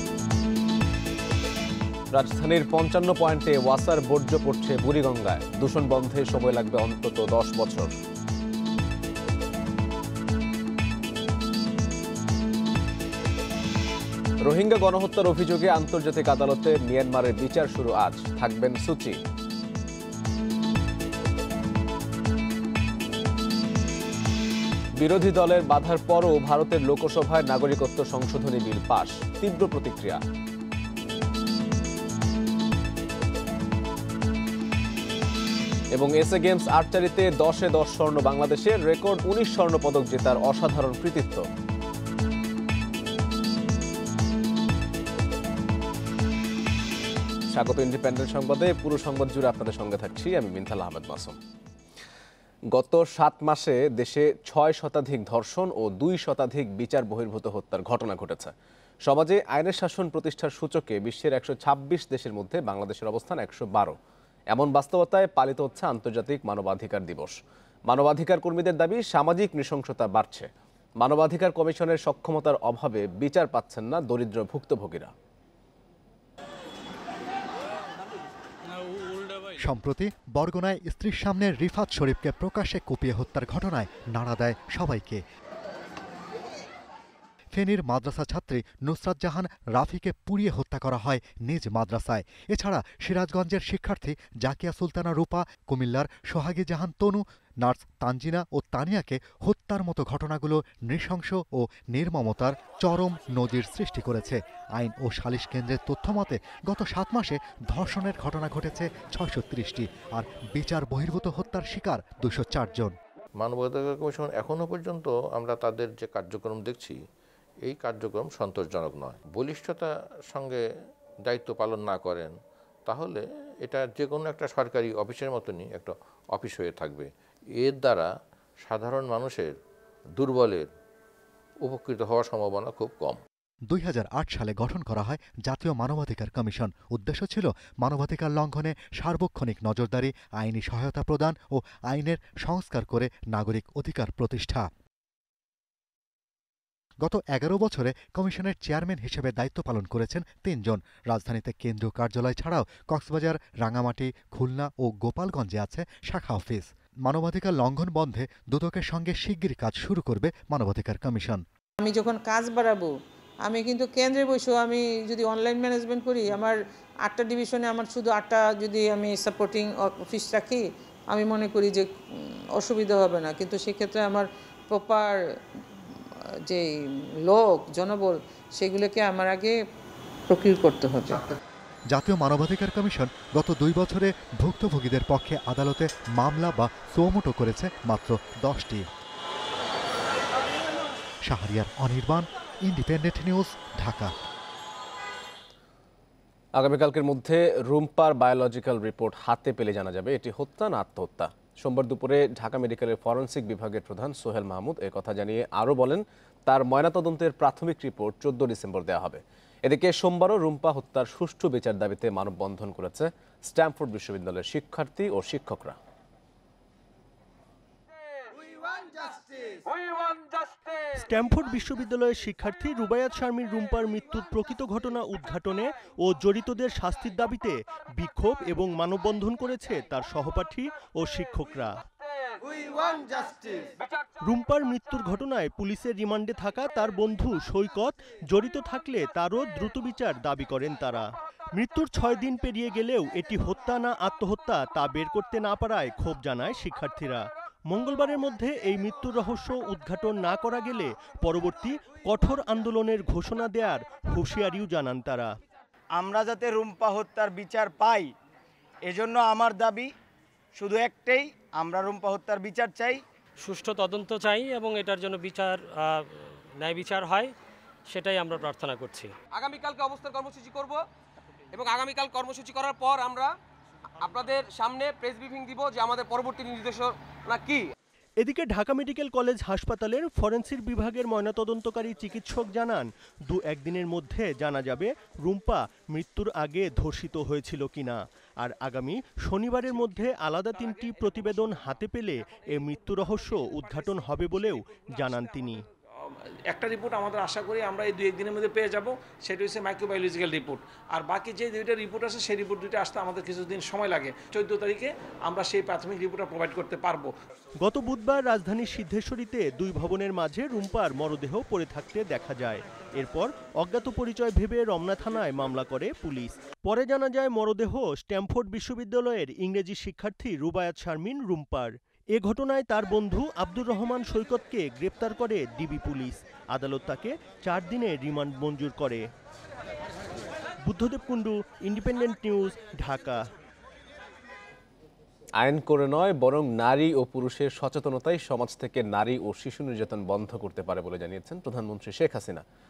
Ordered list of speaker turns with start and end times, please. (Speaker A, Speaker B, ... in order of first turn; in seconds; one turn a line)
Speaker A: 2.1-7.9
Speaker A: 14.4-19.2
Speaker A: 25.0-30.2
Speaker A: 35.9-41.4
Speaker A: 47.5-51.4
Speaker A: 52.7-58.5
Speaker A: 59.0-64.0
Speaker A: 64.5-67.4
Speaker A: 67.9-70.5
Speaker A: 71.0-75.1
Speaker B: 79.6-85.2
Speaker B: 87.5-113.0
Speaker C: 113.4-117.0
Speaker C: 117.7-120.6
Speaker C: 121.2-122.3
Speaker C: 122.9-128.1
Speaker C: 128.6-129.5
Speaker C: 130.2-130.7
Speaker C: 131.6-133.2
Speaker B: 133.7-144.7
Speaker B: 147.0-161.4
Speaker D: 161.8-162.8
Speaker D: 163.5-166.5
Speaker D: 167.1-170.6
Speaker D: 171.1-171.8
Speaker D: 172.6-175.1
Speaker D: 177.3-179.5
Speaker D: 180.3-181.1
Speaker B: 181.9-188.9
Speaker B: 191.2-194.1
Speaker A: 196.5-215.8
Speaker E: 220.9-231.7
Speaker E: 234.2-255.3
Speaker F: 256.0-258.1
Speaker F: 258.9-259.9
Speaker F: 260.6-263.0
Speaker G: 263.4-267.3
Speaker G: 267.9-269.1
Speaker H: 269.3-270.8
Speaker H: 271.5-273.3
Speaker H: 274.0-277.6
Speaker E: 278.2-295.6
Speaker I: 296.5-307.1
Speaker E: 307.6-329.1
Speaker E: 330.6-333.2
Speaker A: 335.4-342.4